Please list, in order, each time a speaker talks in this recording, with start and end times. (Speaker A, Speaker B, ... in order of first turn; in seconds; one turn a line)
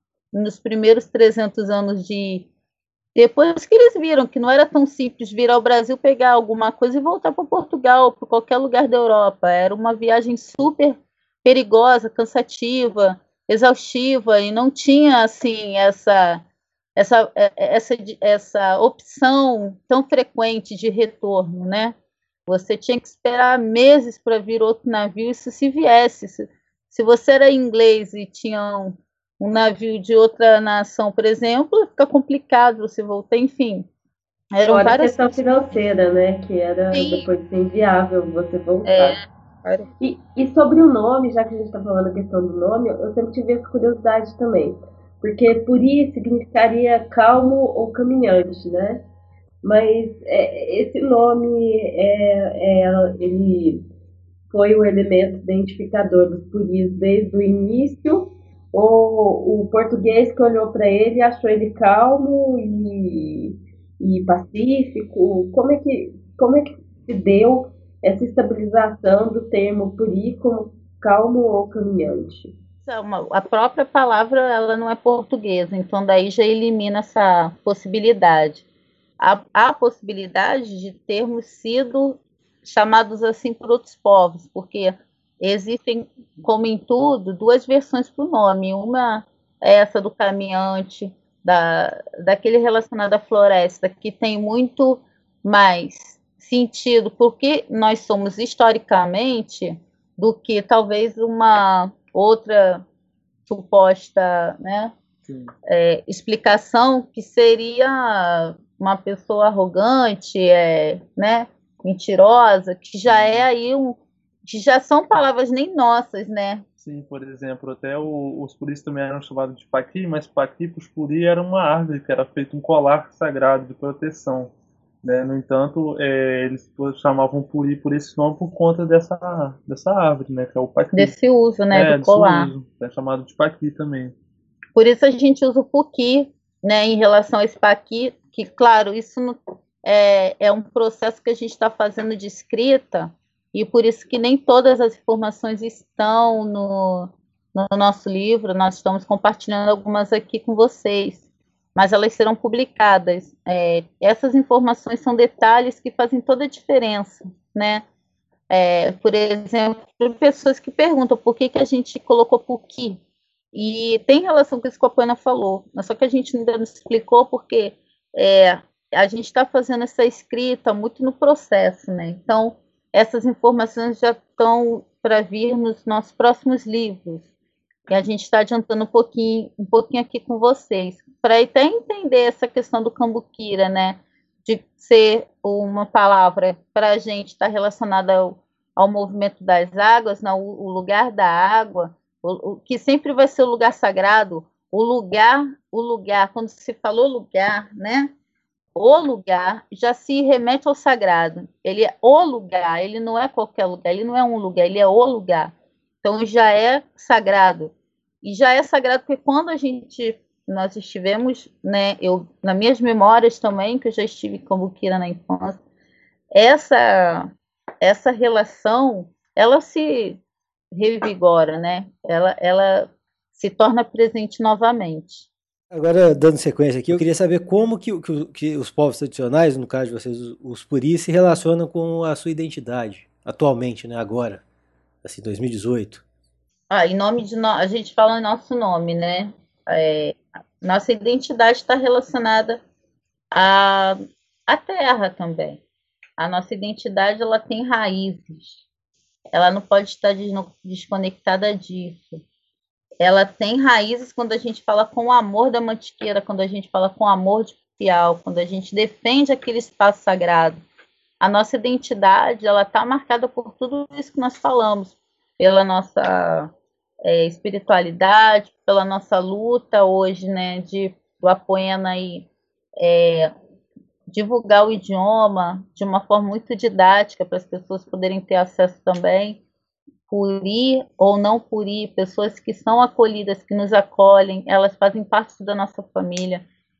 Speaker A: 0.3-2.5
Speaker A: 3.1-16.4
Speaker A: 16.9-21.9
Speaker A: 22.5-33.9
Speaker A: 34.5-35.4
Speaker B: 34.6-39.2
Speaker A: 36.9-37.2
Speaker A: 38.9-39.9
Speaker B: 40.0-49.0
Speaker B: 49.6-53.9
Speaker B: 54.5-72.5
Speaker A: 72.8-78.6
Speaker A: 79.2-102.8
Speaker A: 103.5-104.9
Speaker C: 105.3-105.5
Speaker A: 105.7-116.6
Speaker C: 113.0-113.5
Speaker C: 116.8-124.5
Speaker C: 125.0-131.1
Speaker A: 130.9-132.5
Speaker C: 131.7-134.1
Speaker A: 134.8-151.2
Speaker A: 151.7-157.8
Speaker A: 158.5-163.0
Speaker A: 163.5-177.2
Speaker A: 177.9-198.1
Speaker A: 198.8-215.6
Speaker A: 216.3-217.3
Speaker A: 217.8-220.2
Speaker A: 220.7-225.3
Speaker D: 225.7-234.4
Speaker D: 235.0-236.0
Speaker A: 236.7-242.6
Speaker A: 243.3-245.6
Speaker A: 246.2-248.6
Speaker A: 249.3-252.2
Speaker A: 253.0-260.6
Speaker A: 261.2-266.5
Speaker A: 267.0-272.3
Speaker A: 272.8-273.3
Speaker A: 274.1-279.4
Speaker A: 280.1-286.4